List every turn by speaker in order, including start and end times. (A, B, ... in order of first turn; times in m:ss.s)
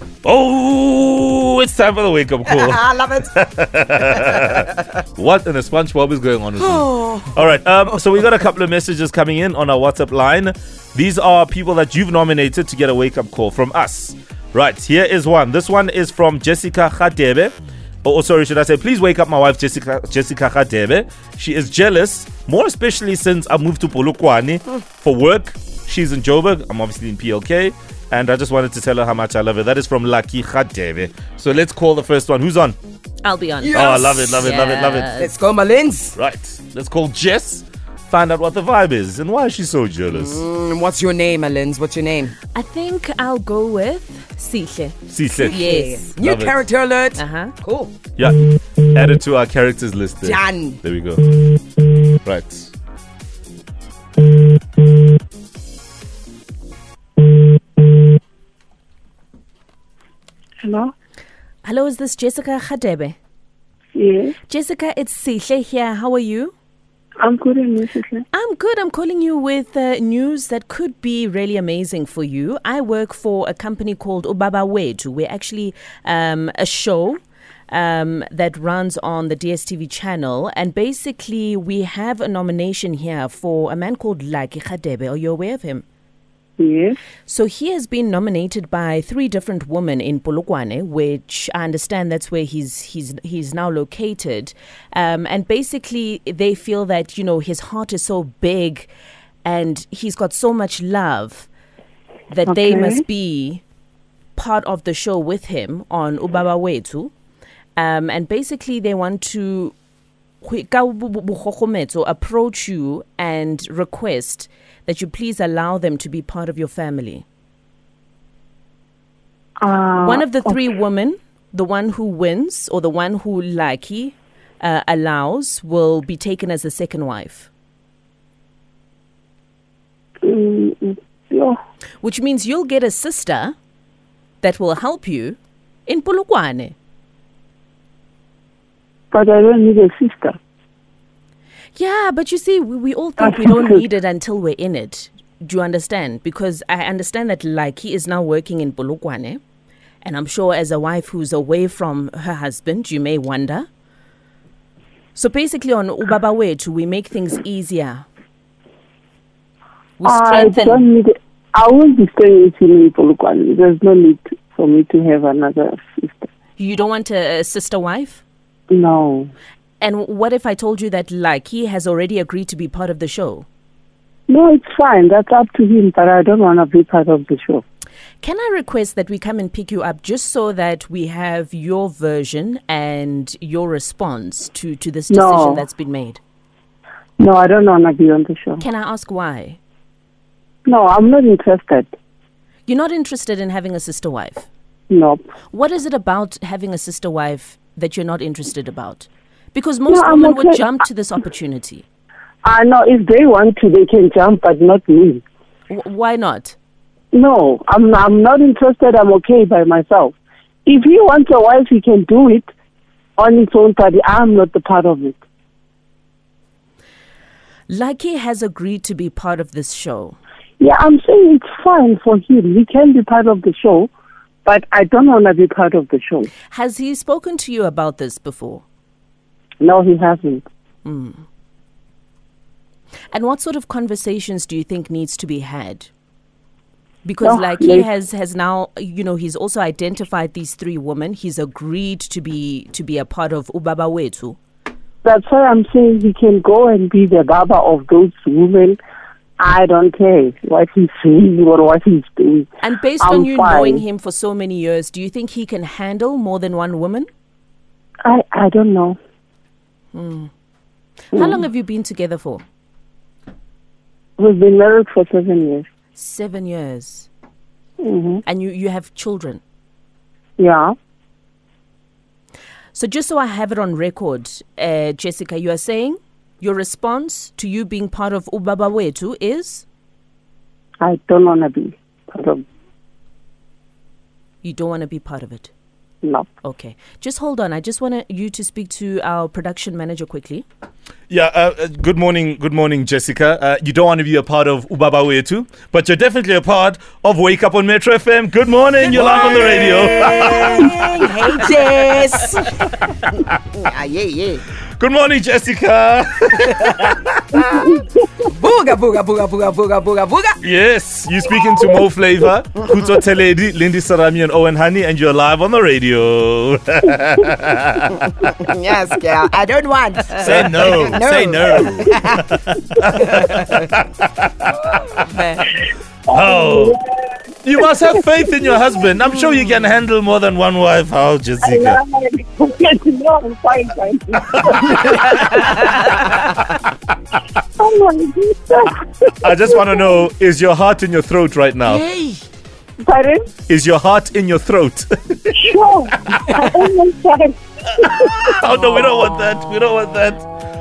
0:00.2-0:32.8 A
0:02.5-0:03.4 B
0:04.1-0:04.5 B
0:06.6-0:08.0 B
0:33.2-0:35.3 C
0:33.6-0:34.4 B
0:33.7-0:35.1 A
0:35.2-0:36.2 B
0:36.2-0:40.4 A
0:40.1-0:42.4 B
0:42.5-0:46.2 C
0:45.1-0:46.6 A
0:45.4-0:47.9 B
0:47.2-0:47.5 C
0:48.2-0:51.2 A
0:50.2-0:50.8 B
0:52.2-0:52.7 A
1:00.6-1:00.9 D
1:01.6-1:03.2 C
1:04.0-1:04.4 D
1:04.5-1:06.5 C
1:07.2-1:08.2 D
1:08.3-1:17.2 C
1:17.7-1:25.8 C
1:26.6-1:27.0 D
1:27.3-1:38.9 C
1:39.4-1:41.5 C
1:42.3-1:43.6 C
1:42.5-1:43.0 D
1:44.4-1:47.1 C
1:47.8-1:49.7 C
1:50.4-1:57.2 C
1:59.6-2:00.5 D
2:00.0-2:07.5 C
2:10.2-2:11.6 D
2:12.0-2:13.6 C
2:14.4-2:16.8 C
2:19.1-2:20.4 D
2:21.8-2:29.4 C
2:23.2-2:23.8 D
2:30.0-2:33.7 C
2:35.2-2:38.1 C
2:40.0-2:40.8 C
2:40.0-2:46.3 D
2:46.6-2:48.2 C
2:48.7-2:49.3 D
2:49.8-2:53.5 C
2:54.3-2:57.6 D
2:58.2-3:06.2 C
3:05.1-3:05.6 D
3:07.2-3:08.6 D
3:08.6-3:09.6 C
3:10.7-3:11.9 D
3:12.7-3:14.5 C
3:14.9-3:15.2 D
3:15.5-3:21.8 C
3:19.9-3:20.6 D
3:22.4-3:25.2 D
3:25.7-3:26.6 C
3:27.1-3:30.2 D
3:30.7-3:32.5 D
3:33.2-3:35.2 D
3:37.7-3:40.2 C
3:40.6-3:43.9 D
3:44.4-3:46.3 D
3:46.5-3:48.6 C
3:49.6-3:50.4 D
3:50.8-3:51.2 C
3:53.1-3:55.9 C
3:57.0-4:04.4 C
3:57.2-3:57.9 D
4:05.0-4:08.8 D
4:09.4-4:12.5 D
4:12.6-4:17.1 C
4:13.0-4:13.8 D
4:18.0-4:19.0 D
4:19.9-4:20.3 C
4:21.1-4:22.4 C
4:24.2-4:25.7 D
4:26.0-4:27.1 C
4:27.8-4:28.2 D
4:28.3-4:29.4 C
4:30.4-4:30.8 D
4:32.7-4:39.6 C
4:40.8-4:42.4 D
4:44.4-4:45.5 C
4:46.4-4:50.4 C
4:51.1-5:00.8 A
4:58.8-5:02.6 B
5:03.6-5:04.4 B
5:04.8-5:07.6 A
5:08.3-5:10.4 B
5:10.4-5:18.1 A
5:18.4-5:22.2 B
5:20.2-5:24.4 A
5:23.1-5:23.6 B
5:25.1-5:25.4 B
5:26.1-5:28.6 D
5:26.1-5:26.8 A
5:27.4-5:31.8 A
5:31.4-5:35.5 D
5:37.6-5:40.0 D
5:39.2-5:41.8 A
5:41.7-5:42.2 B
5:42.8-5:43.2 D
5:43.5-5:45.4 A
5:45.3-5:48.3 D
5:47.7-5:50.3 A